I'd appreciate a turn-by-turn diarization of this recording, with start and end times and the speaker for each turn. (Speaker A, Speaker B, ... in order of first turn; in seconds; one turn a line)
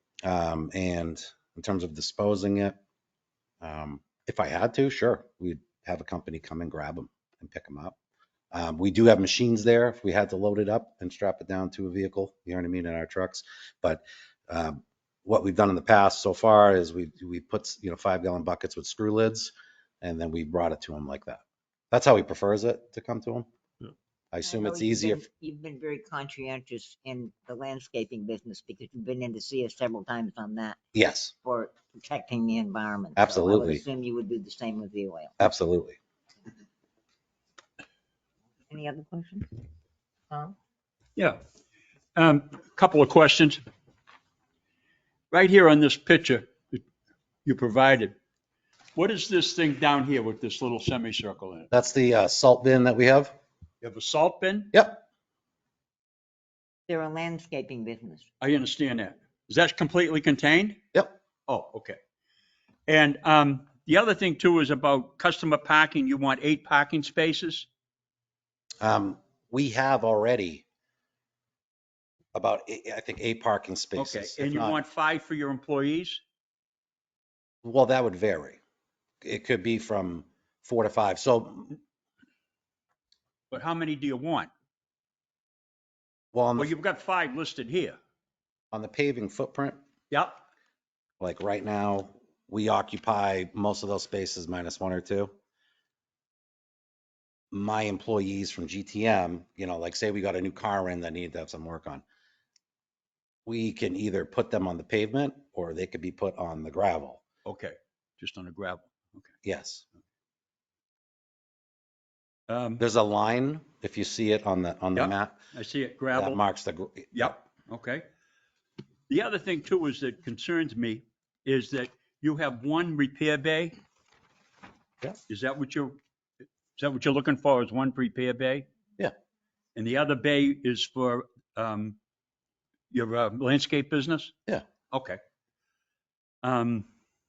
Speaker A: 0.2-2.8
Speaker A: 3.6-8.0
Speaker A: 8.5-23.5
Speaker A: 24.3-25.2
Speaker B: 24.4-30.8
Speaker A: 30.9-31.3
Speaker B: 31.4-35.4
Speaker A: 33.2-33.8
Speaker A: 35.4-36.0
Speaker B: 38.7-39.5
Speaker C: 42.2-43.6
Speaker C: 45.3-46.8
Speaker C: 47.5-48.1
Speaker C: 49.0-51.7
Speaker A: 51.7-53.4
Speaker C: 53.8-54.7
Speaker A: 54.7-55.0
Speaker B: 56.9-58.3
Speaker C: 58.4-60.8
Speaker C: 61.5-62.0
Speaker C: 62.9-67.7
Speaker A: 68.8-70.7
Speaker A: 72.3-74.8
Speaker C: 74.0-76.2
Speaker A: 77.6-78.6
Speaker A: 79.2-81.8
Speaker C: 83.5-84.5
Speaker A: 86.3-86.7
Speaker C: 86.6-88.0
Speaker A: 88.7-89.8
Speaker A: 91.2-95.3
Speaker A: 97.5-102.0
Speaker A: 103.5-107.2
Speaker C: 107.5-109.3
Speaker A: 109.4-109.9
Speaker C: 112.5-112.8
Speaker A: 112.8-115.4
Speaker C: 115.0-116.4
Speaker A: 116.1-117.3
Speaker C: 117.1-118.1
Speaker C: 119.1-123.8
Speaker C: 125.3-126.0
Speaker C: 126.8-128.7
Speaker C: 129.8-132.0
Speaker C: 132.9-134.3
Speaker C: 134.9-135.2
Speaker C: 136.4-136.9